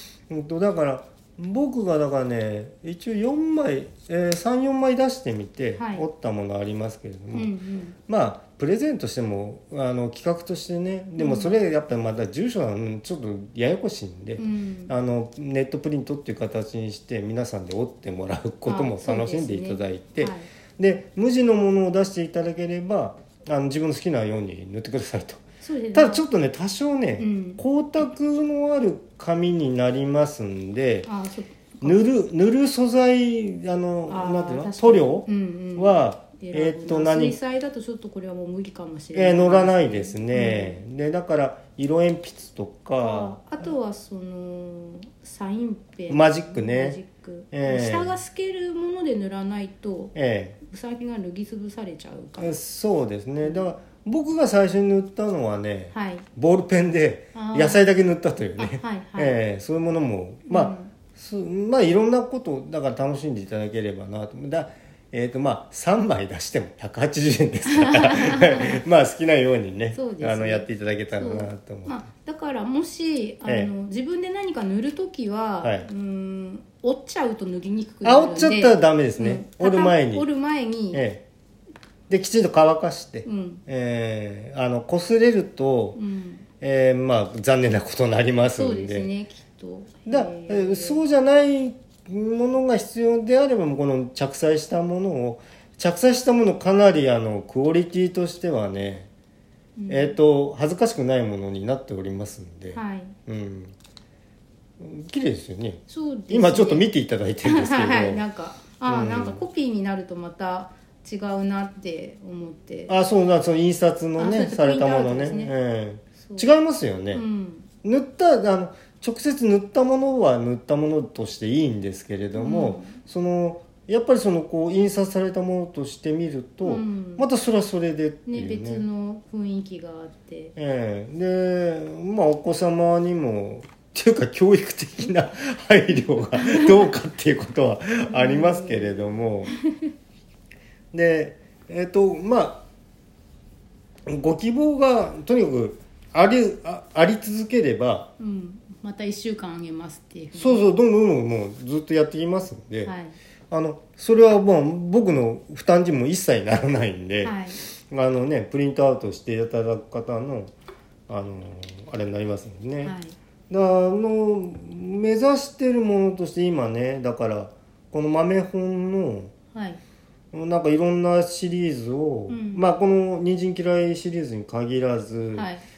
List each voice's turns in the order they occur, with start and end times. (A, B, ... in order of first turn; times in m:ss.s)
0:00.3-0:07.5 A
0:05.8-0:06.0 B
0:07.3-0:07.9 B
0:08.1-0:31.1 A
0:11.2-0:11.6 B
0:14.4-0:14.9 B
0:18.6-0:20.5 B
0:25.6-0:26.2 B
0:27.2-0:27.6 B
0:31.0-0:32.1 B
0:31.8-0:37.4 A
0:34.1-0:40.8 B
0:39.1-0:43.6 A
0:43.0-0:52.6 B
0:46.1-0:47.0 A
0:47.5-0:48.2 A
0:50.1-0:50.6 A
0:52.4-1:12.0 A
0:53.4-0:53.7 B
0:55.9-0:56.3 B
0:57.3-0:57.9 B
0:58.6-0:59.4 B
1:00.5-1:00.9 B
1:07.7-1:08.8 B
1:09.9-1:21.0 B
1:13.4-1:13.7 A
1:15.6-1:15.9 A
1:18.0-1:20.2 A
1:20.9-1:21.2 A
1:22.1-1:26.0 A
1:23.2-1:23.6 B
1:26.0-1:26.4 B
1:26.6-1:29.1 A
1:28.5-1:31.0 B
1:30.1-1:39.1 A
1:39.8-1:40.2 B
1:39.9-1:43.7 A
1:42.7-1:43.2 B
1:44.8-1:48.2 A
1:45.9-1:46.9 B
1:47.4-1:52.9 B
1:48.8-1:49.4 A
1:52.9-1:57.2 A
1:54.2-1:55.5 B
1:56.2-1:56.5 B
1:57.1-1:57.7 B
1:57.8-2:08.8 A
2:02.3-2:02.9 B
2:06.6-2:07.3 B
2:08.3-2:10.5 B
2:10.6-2:19.5 A
2:16.4-2:16.8 B
2:18.1-2:19.9 B
2:20.9-2:22.6 A
2:24.0-2:28.1 A
2:28.2-2:30.7 B
2:30.3-2:32.9 A
2:32.8-2:33.2 B
2:33.5-2:40.5 A
2:37.2-2:37.6 B
2:41.1-2:43.0 A
2:42.8-2:43.2 B
2:43.5-2:49.3 A
2:49.5-2:49.8 B
2:50.3-2:55.5 A
2:52.3-2:52.6 B
2:55.3-2:55.6 B